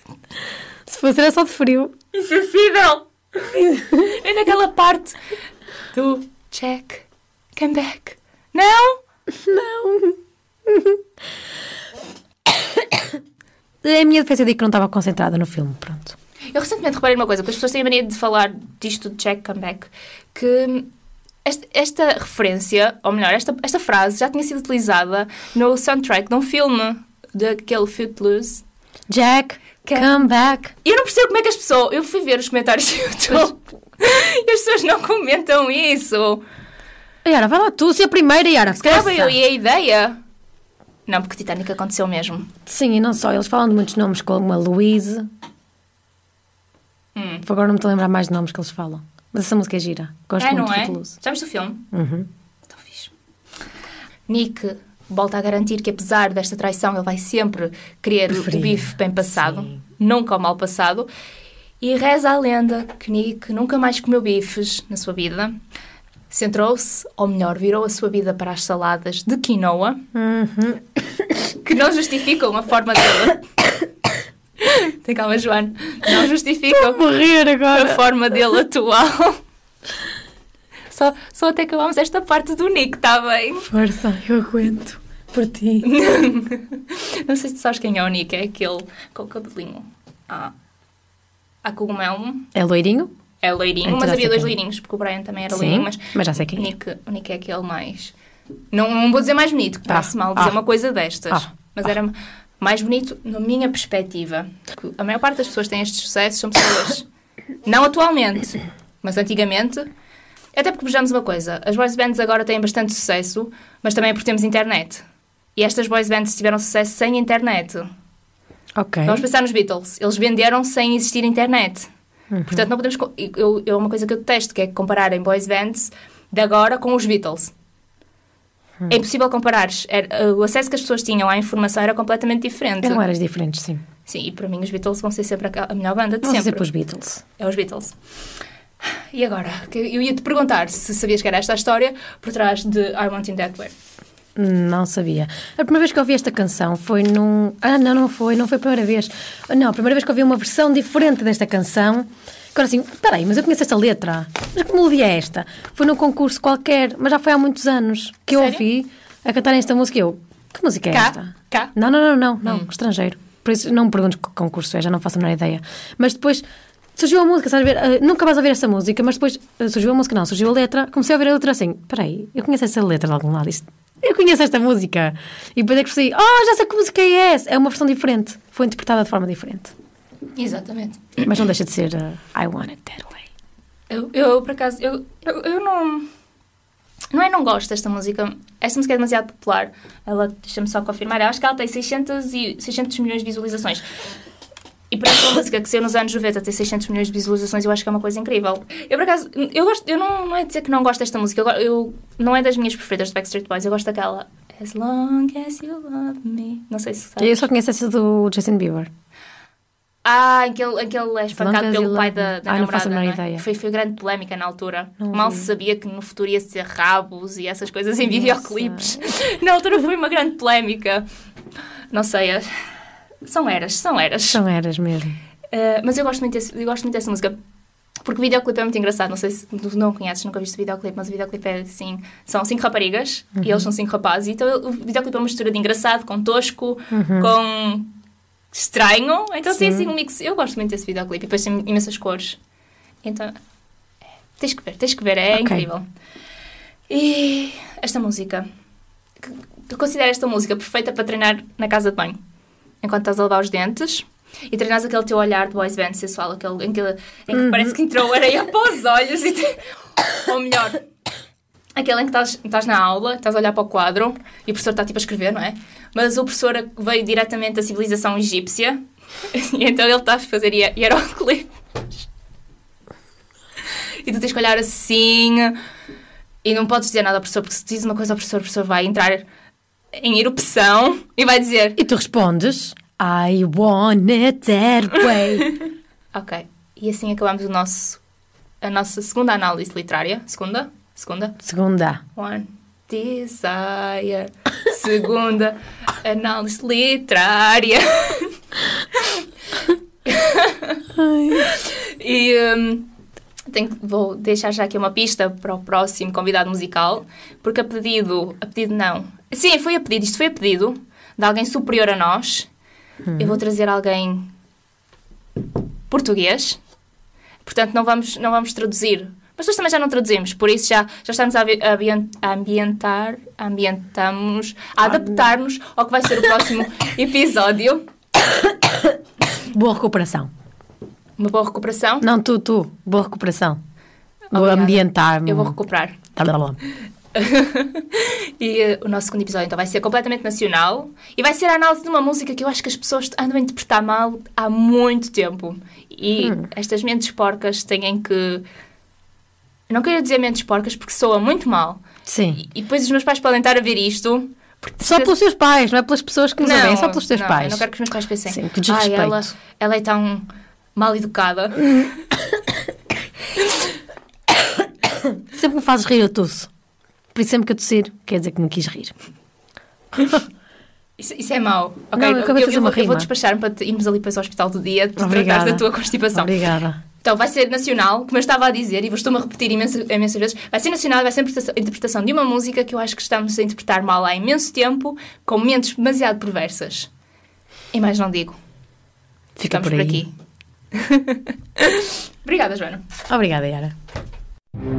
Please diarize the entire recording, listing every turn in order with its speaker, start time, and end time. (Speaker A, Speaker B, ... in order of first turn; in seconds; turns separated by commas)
Speaker A: 0.8-1.9, Speaker B: 2.1-3.1, Speaker A: 3.4-4.2, Speaker B: 4.0-5.2, Speaker B: 5.9-9.0, Speaker A: 9.3-11.0, Speaker A: 12.5-13.2, Speaker A: 13.8-16.1, Speaker B: 16.5-20.9, Speaker B: 21.4-28.6, Speaker A: 29.1-30.7, Speaker B: 29.8-30.2, Speaker B: 30.8-36.4, Speaker A: 37.2-39.4, Speaker B: 38.7-40.2, Speaker B: 41.1-42.5, Speaker A: 42.7-45.3, Speaker B: 47.1-47.5, Speaker A: 47.4-51.1, Speaker B: 50.4-51.8, Speaker A: 51.9-52.3, Speaker B: 52.7-53.1, Speaker B: 54.3-61.1, Speaker A: 58.3-59.8, Speaker B: 61.8-65.6, Speaker B: 66.3-70.0, Speaker A: 70.1-71.3, Speaker B: 71.6-73.5, Speaker B: 74.6-77.0, Speaker A: 76.7-78.0, Speaker B: 77.7-79.4, Speaker B: 80.9-83.7, Speaker A: 83.7-85.9, Speaker B: 85.8-90.5, Speaker B: 91.6-92.5, Speaker A: 92.5-93.1, Speaker B: 93.4-98.1, Speaker A: 93.8-94.5, Speaker A: 95.5-96.7, Speaker B: 98.7-107.1, Speaker A: 99.9-100.6, Speaker B: 107.6-109.9, Speaker B: 110.5-115.0, Speaker B: 115.5-117.9, Speaker A: 118.8-119.2, Speaker B: 119.0-121.9, Speaker A: 122.3-122.7, Speaker B: 122.5-127.5, Speaker B: 128.9-133.0, Speaker A: 132.8-133.8, Speaker B: 134.1-136.7, Speaker A: 136.2-137.2, Speaker B: 137.4-137.9, Speaker B: 139.1-143.7, Speaker A: 144.3-166.4, Speaker B: 158.3-158.6, Speaker B: 160.9-161.7, Speaker A: 166.9-179.7, Speaker B: 180.3-181.2, Speaker A: 181.2-183.3, Speaker B: 183.9-186.1, Speaker B: 187.1-193.8, Speaker B: 194.9-207.4, Speaker A: 207.2-208.9, Speaker B: 210.0-221.0, Speaker A: 211.3-213.4, Speaker A: 215.0-215.5, Speaker A: 218.0-219.1, Speaker B: 221.9-222.5, Speaker B: 223.2-224.4, Speaker A: 224.3-225.2, Speaker B: 225.5-227.3, Speaker B: 228.0-237.9, Speaker A: 233.4-233.7, Speaker A: 236.9-237.3, Speaker B: 238.5-242.4, Speaker A: 239.5-239.9, Speaker B: 243.0-243.3, Speaker B: 244.4-245.8, Speaker A: 245.3-245.7, Speaker B: 246.9-248.4, Speaker B: 249.2-252.2, Speaker B: 252.8-259.6, Speaker A: 257.3-257.7, Speaker B: 260.1-260.8, Speaker B: 261.8-268.8, Speaker B: 269.3-271.5, Speaker B: 274.0-275.5, Speaker B: 276.4-279.2, Speaker B: 279.9-281.8, Speaker A: 281.8-285.5, Speaker B: 286.1-288.0, Speaker B: 288.6-291.4, Speaker A: 291.4-292.0, Speaker B: 292.1-298.3, Speaker B: 298.9-302.9, Speaker A: 300.9-301.5, Speaker B: 303.5-312.5, Speaker A: 313.1-313.4, Speaker B: 313.2-314.3, Speaker B: 315.9-316.6, Speaker B: 317.4-327.8, Speaker A: 328.4-330.3, Speaker B: 331.2-332.1, Speaker A: 332.0-333.6, Speaker B: 334.3-336.0, Speaker A: 334.3-335.6, Speaker A: 336.1-336.6, Speaker B: 337.1-348.4, Speaker A: 346.2-346.5, Speaker B: 349.7-351.8, Speaker A: 352.1-352.4, Speaker B: 352.4-355.1, Speaker A: 354.8-357.6, Speaker B: 356.4-362.0, Speaker A: 358.3-359.3, Speaker A: 361.6-361.9, Speaker A: 365.0-366.5, Speaker A: 367.1-368.9, Speaker A: 370.0-370.2, Speaker B: 371.0-376.3, Speaker A: 371.9-373.1, Speaker A: 375.0-376.8, Speaker B: 377.0-386.9, Speaker B: 387.7-388.4, Speaker A: 389.4-390.0, Speaker B: 389.4-390.1, Speaker B: 390.7-392.8, Speaker A: 393.1-393.7